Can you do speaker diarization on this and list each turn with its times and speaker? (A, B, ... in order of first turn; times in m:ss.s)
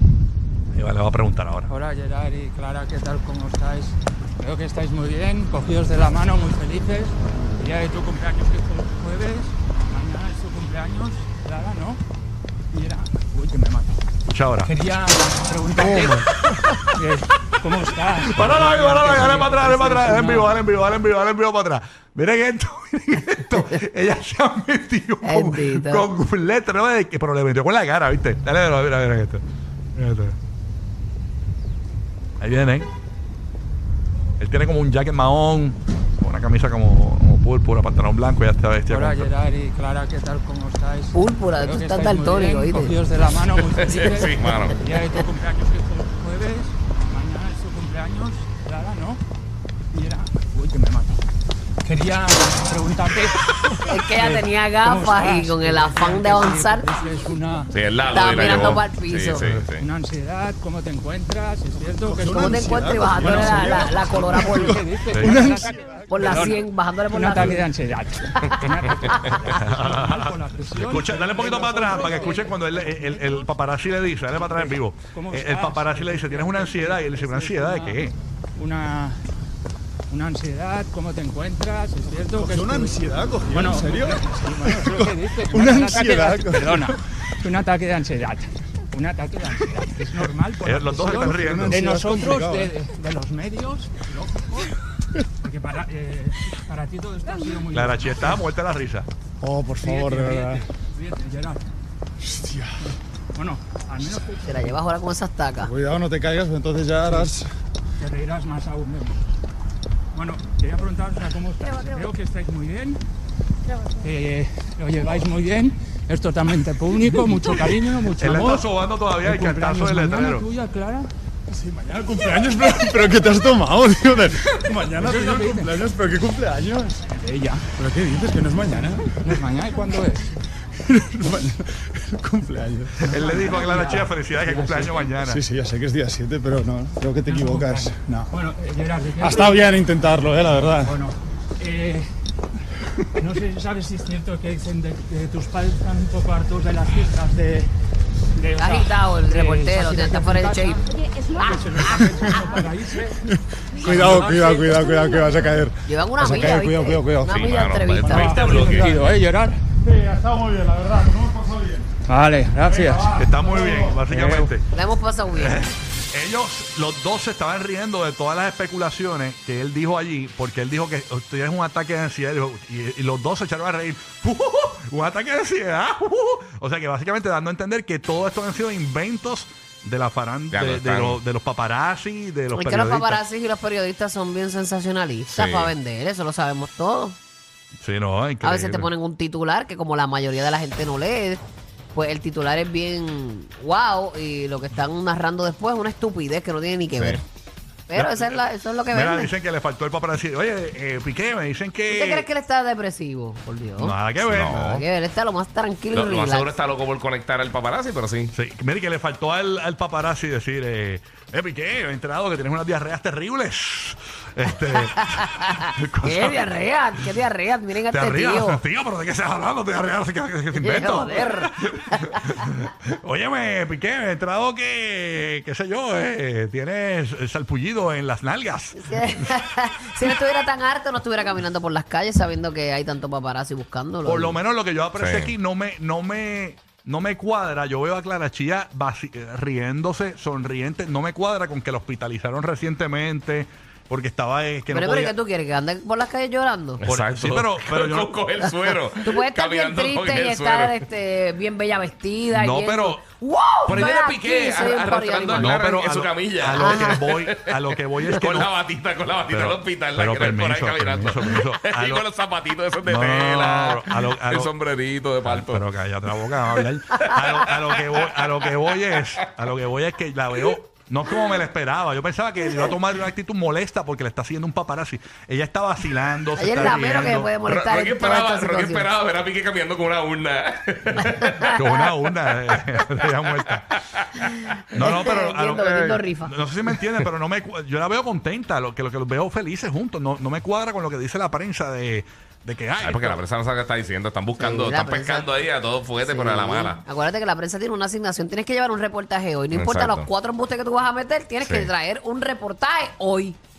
0:00.7-0:01.7 A
0:01.7-0:12.0 B
0:12.7-0:14.0 B
0:14.3-0:14.7 A
0:14.6-0:16.3 B
0:15.9-0:16.2 C
0:16.4-0:16.8 A
0:16.9-0:20.6 B
0:18.2-0:29.4 A
0:25.2-0:26.1 C
0:30.0-0:30.4 A
0:32.4-0:32.9 A
0:34.4-0:39.3 A
0:38.9-0:49.2 B
0:41.1-0:43.0 C
0:43.8-0:44.8 D
0:49.9-0:51.2 B
0:51.8-0:58.8 B
0:53.9-0:56.9 C
0:57.7-0:59.8 D
0:58.1-0:59.4 C
0:59.4-1:06.6 B
1:02.0-1:06.6 E
1:02.3-1:04.8 C
1:05.1-1:05.4 A
1:06.1-1:07.6 C
1:07.1-1:13.5 B
1:08.3-1:09.4 C
1:09.6-1:18.1 A
1:14.6-1:19.2 B
1:20.1-1:34.8 B
1:22.2-1:27.0 E
1:30.6-1:31.9 A
1:31.0-1:32.8 E
1:35.4-1:38.4 B
1:37.7-1:39.1 A
1:39.4-1:40.7 E
1:39.8-1:41.7 B
1:42.2-1:42.9 E
1:43.4-1:44.8 B
1:44.4-1:45.7 C
1:45.6-1:47.5 E
1:47.1-1:47.3 B
1:48.0-1:49.2 B
1:50.1-1:53.0 B
1:53.9-1:58.7 B
1:58.2-2:00.5 A
1:59.2-2:01.1 B
2:01.5-2:07.1 E
2:05.0-2:05.8 B
2:07.1-2:07.7 B
2:07.7-2:09.4 E
2:09.2-2:10.3 B
2:10.7-2:13.8 E
2:13.0-2:15.4 A
2:13.1-2:15.1 B
2:15.2-2:18.3 E
2:17.3-2:19.7 B
2:19.2-2:21.0 E
2:20.8-2:22.1 B
2:23.2-2:27.7 B
2:28.4-2:33.2 B
2:28.6-2:30.9 C
2:31.9-2:32.4 E
2:33.2-2:39.1 E
2:33.8-2:35.1 B
2:35.9-2:38.4 C
2:37.2-2:38.9 D
2:38.0-2:39.6 B
2:39.8-2:42.0 E
2:42.1-2:43.2 B
2:42.6-2:44.5 E
2:43.2-2:44.7 A
2:44.7-2:45.6 C
2:45.4-3:03.2 A
3:00.5-3:01.2 D
3:02.5-3:07.2 C
3:05.3-3:05.7 D
3:07.8-3:08.9 A
3:08.4-3:11.4 C
3:11.9-3:17.2 C
3:17.9-3:19.3 C
3:18.0-3:22.3 A
3:21.9-3:24.0 C
3:23.8-3:24.8 A
3:24.2-3:24.8 D
3:24.6-3:26.5 C
3:25.9-3:28.3 D
3:28.3-3:36.5 A
3:34.7-3:38.6 C
3:37.9-3:49.3 A
3:40.5-3:42.4 C
3:48.8-3:54.4 C
3:54.0-4:05.2 A
3:55.0-3:55.3 D
4:04.7-4:06.8 C
4:06.8-4:10.8 D
4:06.8-4:08.1 A
4:09.0-4:15.5 C
4:12.3-4:13.0 A
4:13.6-4:14.0 A
4:13.7-4:25.6 D
4:15.4-4:18.5 A
4:16.6-4:16.9 C
4:19.3-4:22.1 A
4:22.8-4:24.5 A
4:25.2-4:37.3 A
4:27.0-4:29.0 D
4:36.4-4:38.9 C
4:37.4-4:41.5 D
4:41.2-4:41.5 C
4:41.5-4:43.8 A
4:43.7-4:44.9 D
4:44.7-4:53.2 A
4:44.7-4:46.4 C
4:52.8-4:56.8 D
4:54.4-4:55.3 C
4:56.0-5:03.4 C
4:59.5-5:00.1 D
5:01.4-5:01.7 D